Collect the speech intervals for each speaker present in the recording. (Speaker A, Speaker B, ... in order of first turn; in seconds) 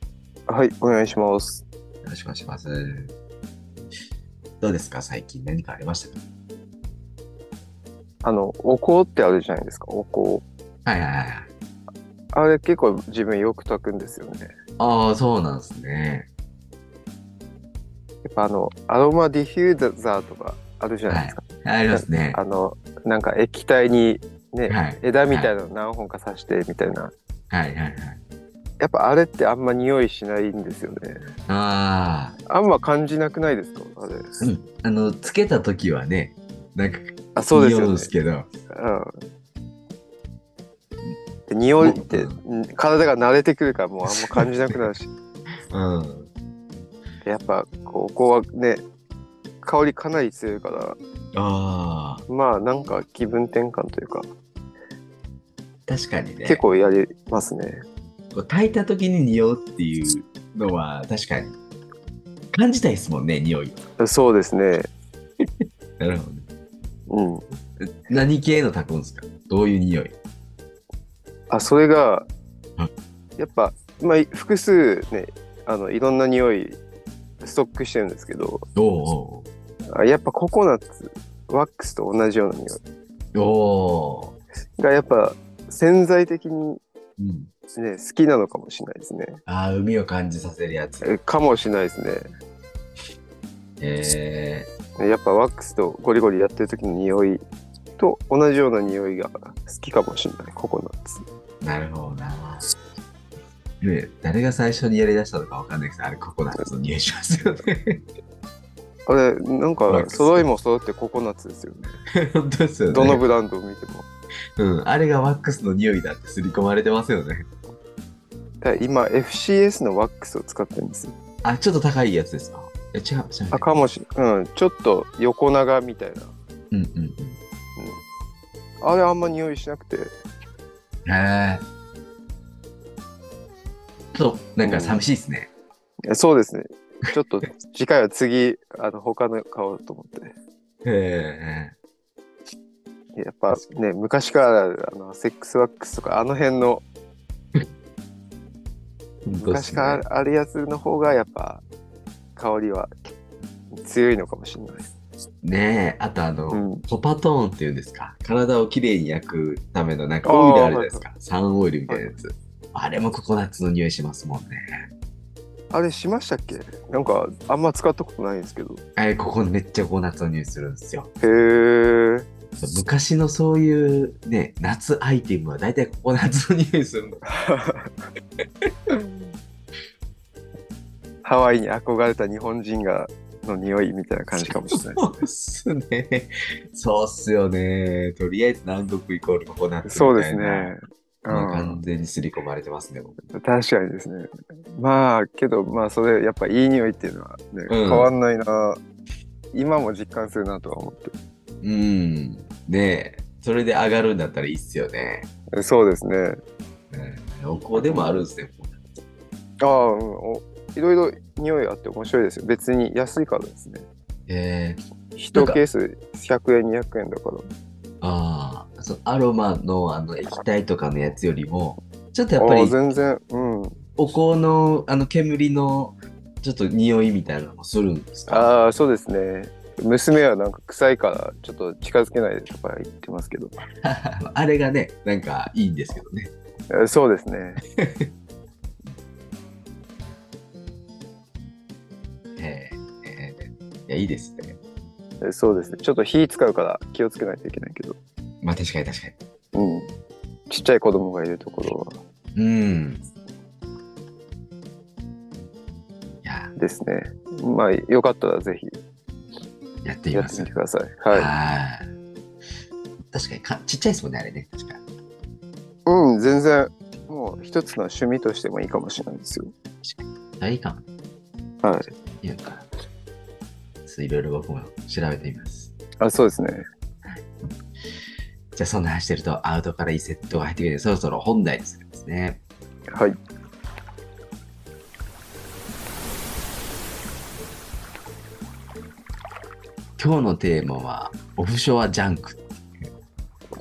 Speaker A: 0.5-1.6, 8.2-10.4, 12.3-14.5, 18.2-27.1, 28.8-31.2, 32.5-34.4, 37.3-38.1, 38.7-39.2, 41.5-45.1, 47.2-48.8, 49.6-51.0, 52.3-54.3, 56.4-57.8, 64.0-64.9, 67.1-67.4, 71.5-72.3, 73.4-76.8, 77.4-78.6, 79.9-82.8, 84.8-86.8, 87.7-89.4, 91.0-92.2, 95.0-97.4, 98.0-101.2, 109.0-112.0, 112.9-114.0, 118.6-121.1, 123.5-126.3, 128.8-130.1, 134.6-135.0, 136.1-140.3, 143.1-146.8, 149.3-151.6, 152.3-153.1, 153.7-154.9, 156.5-156.8, 160.2-161.1, 161.9-162.1, 165.7-168.8, 171.2-172.3, 177.2-178.0, 181.2-185.3, 189.8-191.8, 193.3-198.8, 199.5-201.1, 205.5-206.4, 209.6-213.8, 215.3-217.4, 222.4-223.8, 228.3-233.6, 236.7-237.6, 245.2-248.0, 249.5-249.9, 250.5-252.0, 256.6-258.7, 260.1-261.3, 265.9-269.5, 271.6-271.9, 276.0-276.6
Speaker B: 2.0-3.1, 4.6-6.2, 10.8-11.5, 14.8-16.3, 21.1-22.4, 24.7-25.5, 27.5-28.2, 31.5-32.4, 34.4-38.5, 41.8-42.4, 44.1-44.5, 45.7-46.3, 51.3-52.2, 55.9-56.6, 58.3-61.5, 62.5-63.8, 66.0-66.5, 67.8-70.1, 78.7-79.5, 83.3-84.4, 87.2-87.5, 89.5-91.1, 93.8-94.7, 101.6-102.7, 103.8-108.0, 109.9-110.5, 112.2-113.2, 114.6-117.5, 121.4-123.8, 126.7-127.4, 131.1-131.6, 134.1-135.5, 140.8-141.7, 149.2-150.0, 155.4-164.8, 168.9-171.1, 172.6-177.3, 184.5-190.7, 191.3-193.2, 197.7-198.1, 201.6-205.3, 206.9-209.0, 214.3-215.6, 218.0-222.8, 224.0-228.5, 233.8-236.3, 237.8-238.1, 242.3-244.6, 248.4-249.2, 252.3-253.1, 256.2-256.5, 259.8-260.5, 261.1-261.9, 263.1-264.8, 269.8-270.8, 272.2-272.6, 273.9-275.7, 278.5-282.4, 290.0-292.9